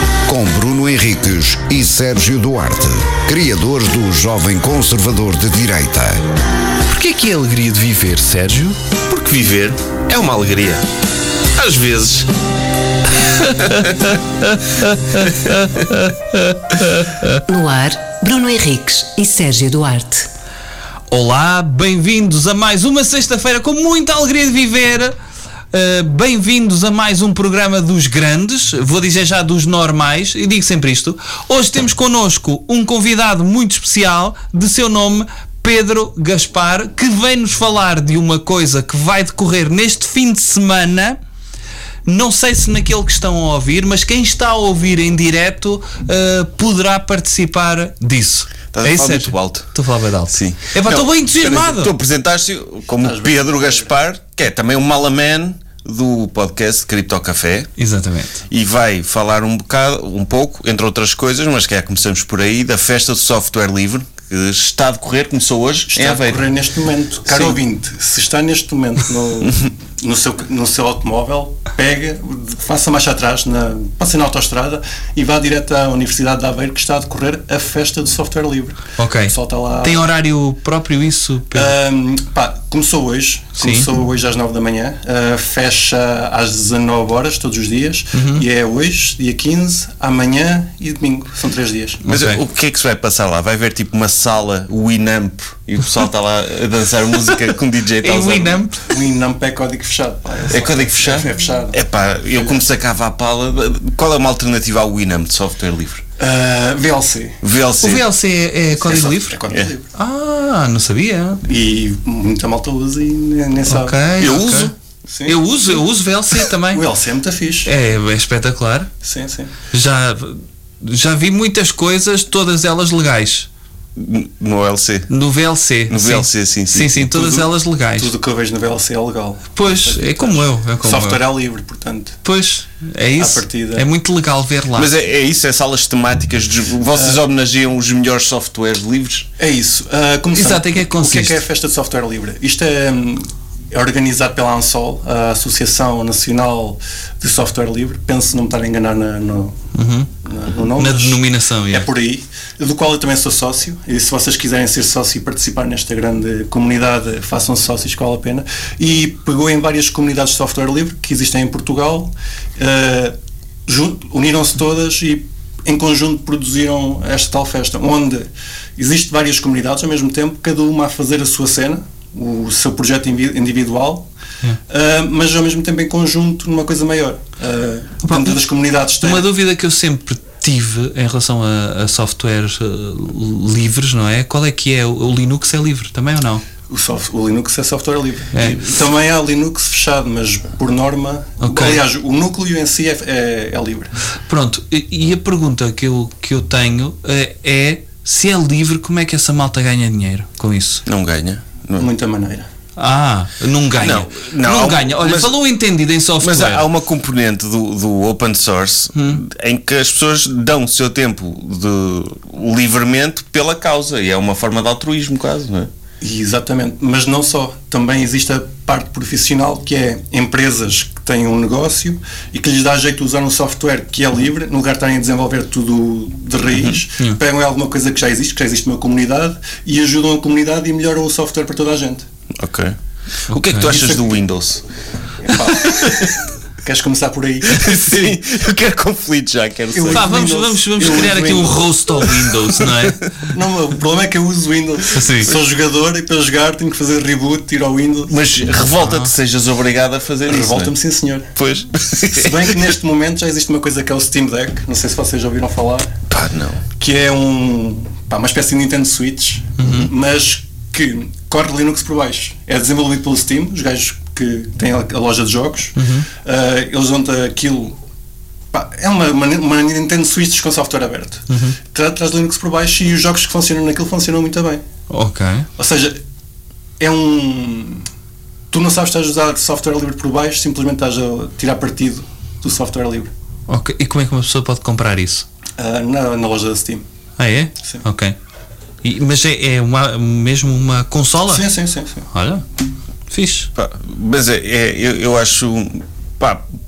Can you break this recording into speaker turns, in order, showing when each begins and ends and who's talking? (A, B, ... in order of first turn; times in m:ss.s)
0:00.2-0:06.2 A
0:06.9-0:08.8 B
0:09.0-0:10.8 C
0:11.5-0:12.3 C
0:13.4-0:13.9 B
0:13.6-0:14.1 C
0:14.7-0:17.4 B
0:17.5-0:20.3 D
0:21.1-0:25.1 B
0:25.7-0:41.2 B
0:42.0-0:51.9 B
0:48.7-0:49.7 C
0:50.3-0:57.7 C
0:53.0-0:53.9 E
0:57.8-0:58.4 B
0:58.5-1:06.4 C
1:05.9-1:20.1 E
1:07.3-1:07.6 C
1:19.0-1:21.7 B
1:21.5-1:32.0 E
1:23.6-1:23.9 B
1:28.1-1:28.4 B
1:32.0-1:32.4 B
1:32.1-1:38.6 C
1:38.0-1:38.9 B
1:38.9-1:41.8 E
1:40.5-1:46.0 C
1:42.3-1:42.6 E
1:46.2-1:47.4 E
1:47.4-1:48.0 C
1:47.8-1:49.4 B
1:48.8-1:49.9 E
1:49.9-1:51.4 B
1:51.4-1:54.0 E
1:53.7-1:54.7 B
1:54.2-1:54.7 C
1:55.1-1:55.8 E
1:55.3-1:56.8 B
1:56.7-1:57.7 E
1:57.6-1:58.9 B
1:59.0-1:59.5 E
1:59.7-2:03.5 B
2:04.0-2:05.1 C
2:05.1-2:08.1 B
2:05.9-2:07.4 C
2:08.0-2:12.2 E
2:09.6-2:11.2 B
2:12.2-2:14.9 B
2:13.2-2:13.9 E
2:14.8-2:19.3 C
2:16.9-2:17.2 E
2:19.4-2:29.6 E
2:20.3-2:21.4 B
2:29.7-2:30.1 B
2:30.2-2:43.1 E
2:30.8-2:31.9 B
2:43.7-2:54.1 E
2:54.7-2:59.3 E
2:58.0-2:58.4 B
2:59.0-3:06.4 B
3:06.7-3:13.9 E
3:08.3-3:08.7 B
3:11.4-3:11.8 B
3:14.3-3:20.8 B
3:20.8-3:21.9 C
3:21.8-3:22.5 E
3:22.8-3:26.7 B
3:23.8-3:25.3 C
3:26.2-3:35.7 C
3:28.9-3:29.2 B
3:36.0-3:52.0 E
3:52.4-3:52.8 C
3:53.3-3:53.8 B
3:53.3-3:54.6 C
3:53.7-3:54.1 E
3:55.2-3:58.1 E
3:55.6-3:56.1 C
3:57.5-4:00.1 C
3:59.7-4:01.6 E
3:59.9-4:03.2 B
4:03.3-4:08.2 E
4:04.9-4:05.3 B
4:08.1-4:10.7 C
4:08.8-4:09.1 B
4:10.2-4:11.4 E
4:11.4-4:12.4 C
4:12.1-4:15.9 E
4:16.1-4:16.6 C
4:16.8-4:27.8 E
4:19.6-4:19.9 B
4:25.8-4:26.1 B
4:28.5-4:34.6 E
4:31.3-4:31.6 B
4:34.9-4:35.5 B
4:35.6-4:36.0 E
4:36.8-4:37.8 E
4:38.5-4:43.1 E
4:43.5-4:45.2 B
4:45.6-4:46.8 E
4:47.2-4:48.1 B
4:48.8-4:51.4 B
4:51.3-4:52.1 E
4:52.1-4:52.4 B
4:53.1-4:53.5 B
4:53.5-4:56.4 C